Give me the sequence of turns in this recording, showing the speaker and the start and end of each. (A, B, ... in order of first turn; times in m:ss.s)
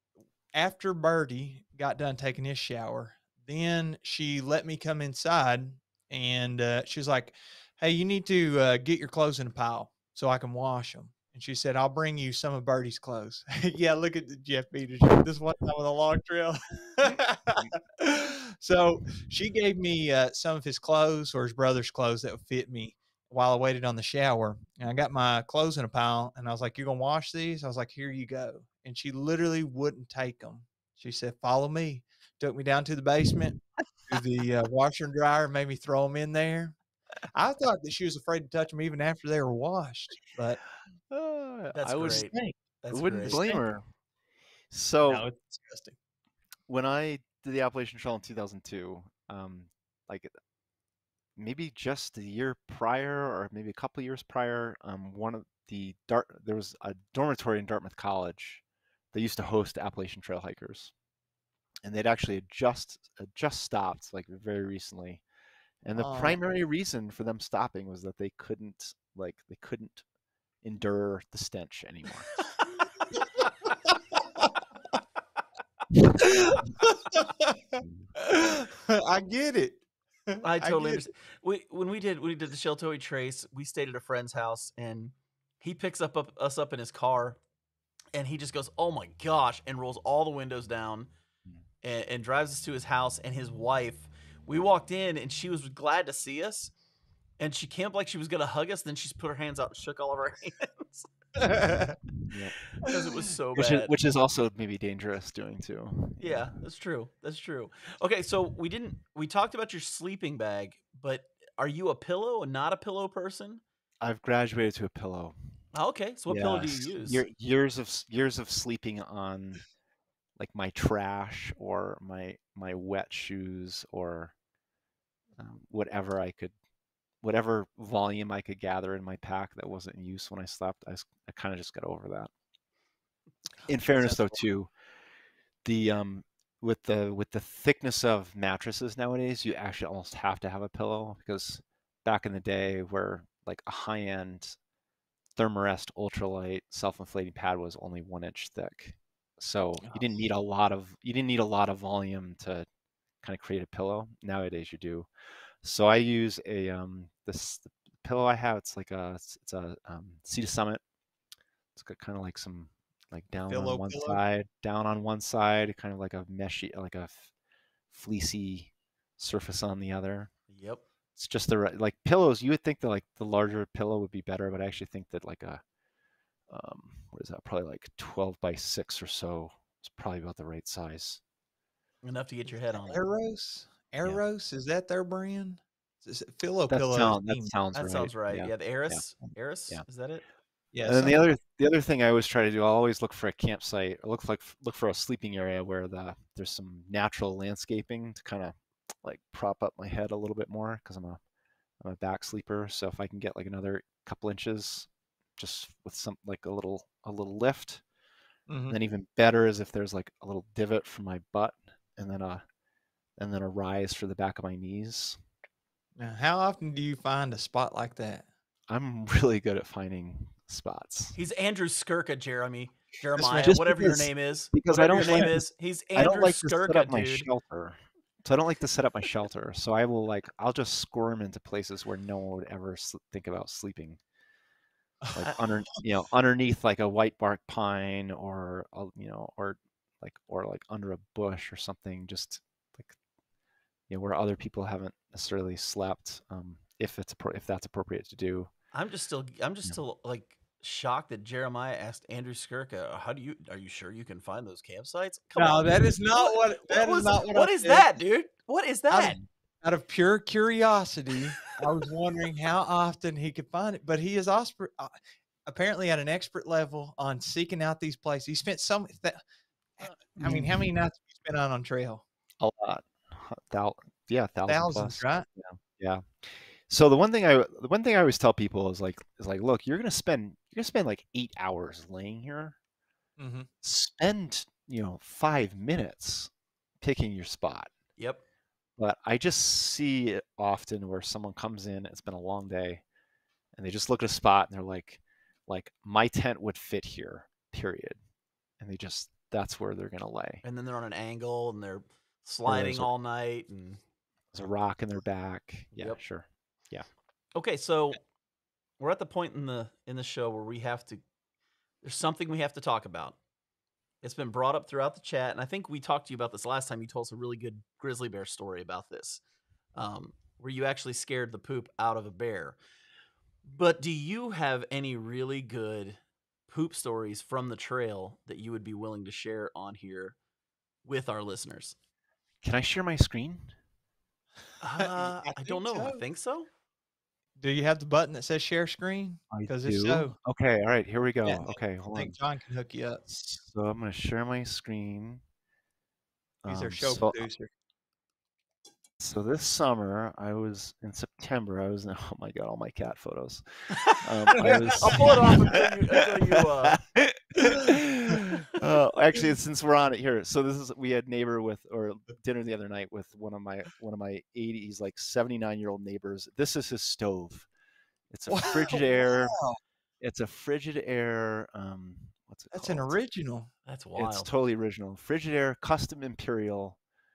0:00.5-0:36.8 A
0:37.3-0:40.6 A
0:41.1-0:43.8 B
0:41.7-0:43.4 C
0:43.2-0:43.6 A
0:44.7-0:45.2 B
0:45.0-0:46.0 A
0:46.7-0:50.3 B
0:51.4-1:00.9 B
1:01.8-1:05.2 B
1:05.8-1:10.0 B
1:06.0-1:06.4 A
1:10.6-1:12.4 B
1:16.2-1:21.0 A
1:17.8-1:18.1 B
1:20.4-1:27.4 C
1:28.2-1:31.1 C
1:31.8-1:36.7 C
1:37.4-1:41.1 C
1:41.4-1:42.0 A
1:42.3-1:42.6 B
1:42.8-1:43.9 C
1:43.6-1:46.5 B
1:46.2-1:53.6 C
1:54.0-1:55.4 B
1:55.7-1:57.2 C
1:56.3-1:59.6 B
2:00.4-2:04.4 B
2:05.4-2:06.6 B
2:07.2-2:12.3 B
2:13.7-2:14.7 B
2:13.9-2:14.2 C
2:15.6-2:24.6 B
2:25.4-2:32.7 B
2:33.2-2:35.1 B
2:35.6-2:40.8 B
2:41.8-2:47.3 B
2:43.5-2:44.2 A
2:47.9-2:50.3 B
2:50.5-2:50.8 C
2:51.2-2:55.6 B
2:56.5-3:01.2 B
3:02.0-3:03.0 C
3:02.7-3:07.5 A
3:06.7-3:09.8 B
3:07.7-3:10.2 C
3:10.7-3:11.2 A
3:10.9-3:21.2 B
3:21.8-3:27.8 B
3:28.5-3:28.8 A
3:28.7-3:32.4 B
3:33.2-3:35.2 B
3:36.0-3:38.3 A
3:38.7-3:41.2 B
3:41.2-3:47.3 C
3:43.2-3:43.5 A
3:43.3-3:45.4 B
3:45.0-3:45.4 A
3:46.0-3:54.0 B
3:55.1-3:55.4 A
3:55.1-4:03.0 B
4:03.9-4:08.5 B
4:08.7-4:19.2 C
4:15.4-4:17.9 A
4:18.9-4:24.9 A
4:25.5-4:29.2 A
4:29.8-4:32.0 A
4:30.2-4:30.7 B
4:32.4-4:42.6 B
4:34.5-4:35.3 A
4:43.2-4:43.5 A
4:43.6-4:47.7 B
4:48.8-4:52.8 B
4:53.6-4:58.0 B
4:58.6-5:00.4 B
5:00.4-5:03.8 C
5:02.5-5:02.9 B
5:04.3-5:06.9 B
5:05.8-5:06.0 C
5:07.4-5:08.0 C
5:08.8-5:11.0 C
5:11.8-5:13.2 C
5:14.0-5:19.2 C
5:19.8-5:22.6 C
5:23.4-5:30.2 C
5:30.8-5:31.8 C
5:32.4-5:33.6 B
5:34.6-5:36.5 C
5:34.8-5:36.0 A
5:37.4-5:40.2 A
5:39.3-5:42.2 B
5:41.2-5:43.0 A
5:43.1-5:45.2 B
5:46.4-5:47.2 B
5:46.5-5:47.5 A
5:49.0-5:55.7 B
5:54.4-5:55.4 A
5:54.8-5:56.8 C
5:56.6-6:07.5 B
6:08.1-6:09.4 B
6:08.3-6:09.6 A
6:10.0-6:13.0 B
6:12.5-6:13.5 A
6:13.7-6:14.3 C
6:14.0-6:16.8 B